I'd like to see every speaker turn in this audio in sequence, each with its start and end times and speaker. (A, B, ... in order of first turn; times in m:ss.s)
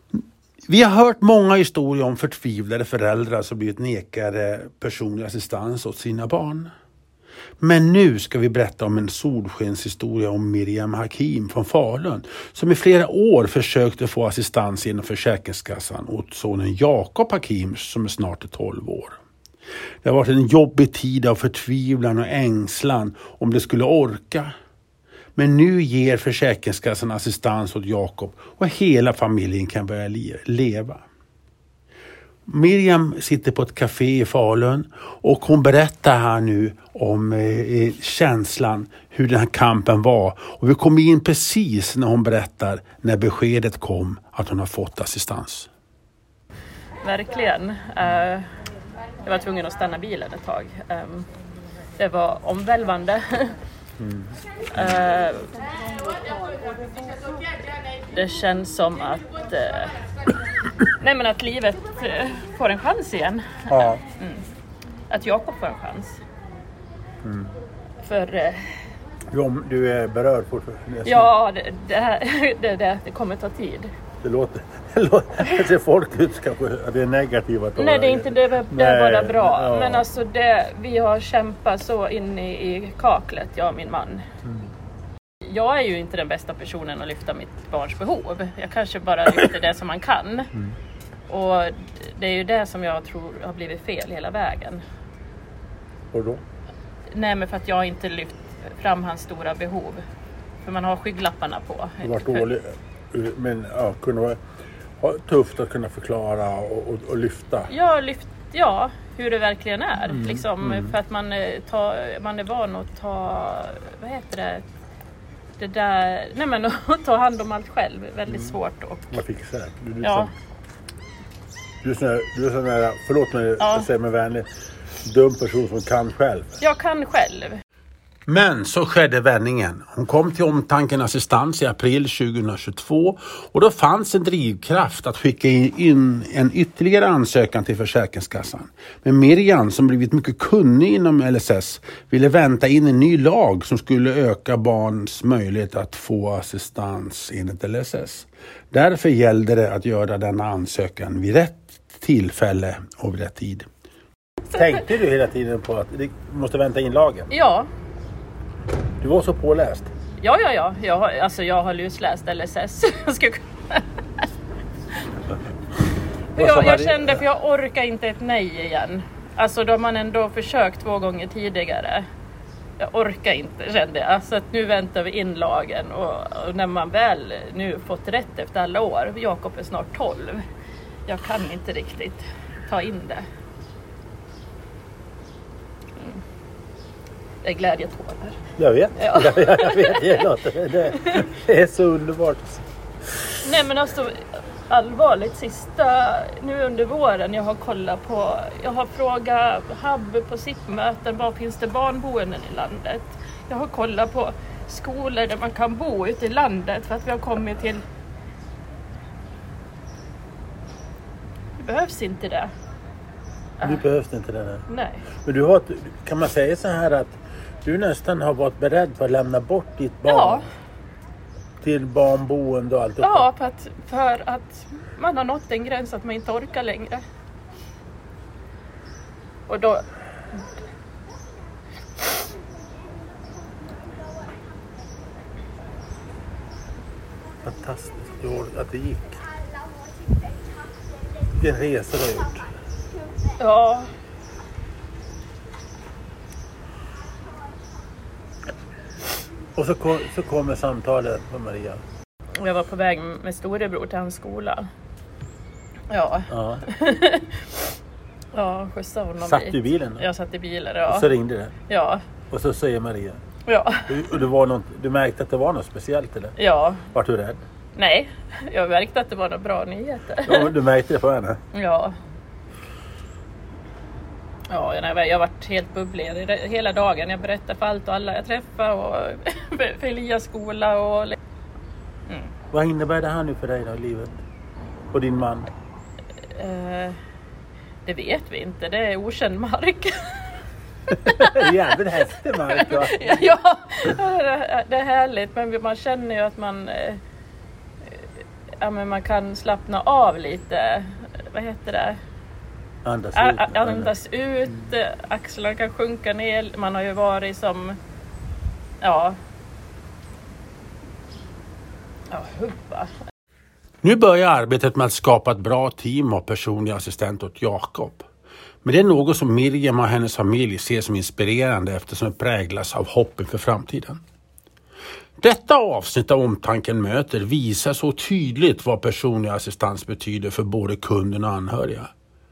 0:00.7-0:06.7 A
0:07.6-0:19.2 A
0:20.0-0:24.5 A
0:25.4-0:31.0 A
0:32.5-0:45.7 A
0:47.0-0:48.5 B
0:49.2-0:51.3 B
0:52.0-0:53.5 B
0:54.0-0:54.9 A
0:54.7-0:55.5 B
0:58.1-1:00.0 B
1:00.9-1:04.4 B
1:03.7-1:04.0 A
1:05.1-1:06.2 B
1:07.2-1:07.5 A
1:08.0-1:08.7 B
1:09.3-1:11.3 A
1:11.0-1:13.9 B
1:14.2-1:20.0 A
1:17.8-1:24.2 B
1:25.4-1:30.5 B
1:31.3-1:34.8 B
1:36.1-1:36.4 A
1:37.1-1:40.0 B
1:40.6-1:42.5 B
1:42.0-1:44.4 A
1:45.0-1:47.7 A
1:47.7-1:54.6 B
1:50.1-1:51.0 A
1:55.6-1:59.2 B
1:58.3-1:58.6 A
1:59.1-2:00.3 A
2:00.0-2:00.3 B
2:01.8-2:04.5 A
2:03.6-2:03.9 B
2:05.0-2:06.6 A
2:06.6-2:07.6 B
2:08.3-2:33.7 A
2:34.5-2:37.3 A
2:37.3-2:37.7 B
2:39.0-2:39.9 A
2:40.2-2:43.9 B
2:46.3-2:52.0 B
2:46.4-2:47.2 A
2:52.8-3:00.4 B
3:01.1-3:03.2 B
3:06.0-3:06.2 B
3:07.4-3:08.4 B
3:08.6-3:12.6 A
3:09.0-3:11.2 B
3:13.4-3:27.8 B
3:31.6-3:32.5 B
3:33.6-3:34.6 A
3:34.7-3:35.1 B
3:35.2-3:40.5 A
3:40.1-3:40.5 B
3:41.6-3:43.3 A
3:43.0-3:47.0 B
3:49.5-3:49.8 B
3:57.4-3:59.2 A
4:01.4-4:02.5 A
4:03.4-4:03.9 B
4:09.6-4:11.8 A
4:12.4-4:14.6 B
4:15.9-4:17.6 B
4:16.3-4:16.6 A
4:18.3-4:21.1 B
4:19.2-4:20.1 A
4:20.9-4:21.5 A
4:21.7-4:22.0 B
4:22.3-4:23.2 A
4:23.5-4:24.0 B
4:23.9-4:26.4 A
4:26.4-4:26.8 B
4:26.9-4:27.4 A
4:27.8-4:30.5 B
4:30.2-4:31.4 A
4:31.5-4:32.0 B
4:34.5-4:41.2 B
4:42.5-4:44.2 A
4:44.9-4:45.5 A
4:46.3-4:47.0 B
4:47.8-4:50.2 B
4:50.9-4:53.3 A
4:51.1-4:51.7 B
4:52.3-4:57.0 B
4:57.8-5:02.0 B
5:02.8-5:03.9 A
5:03.1-5:07.8 B
5:08.8-5:09.2 B
5:12.1-5:12.9 B
5:13.8-5:18.1 A
5:18.6-5:24.0 A
5:25.2-5:31.9 A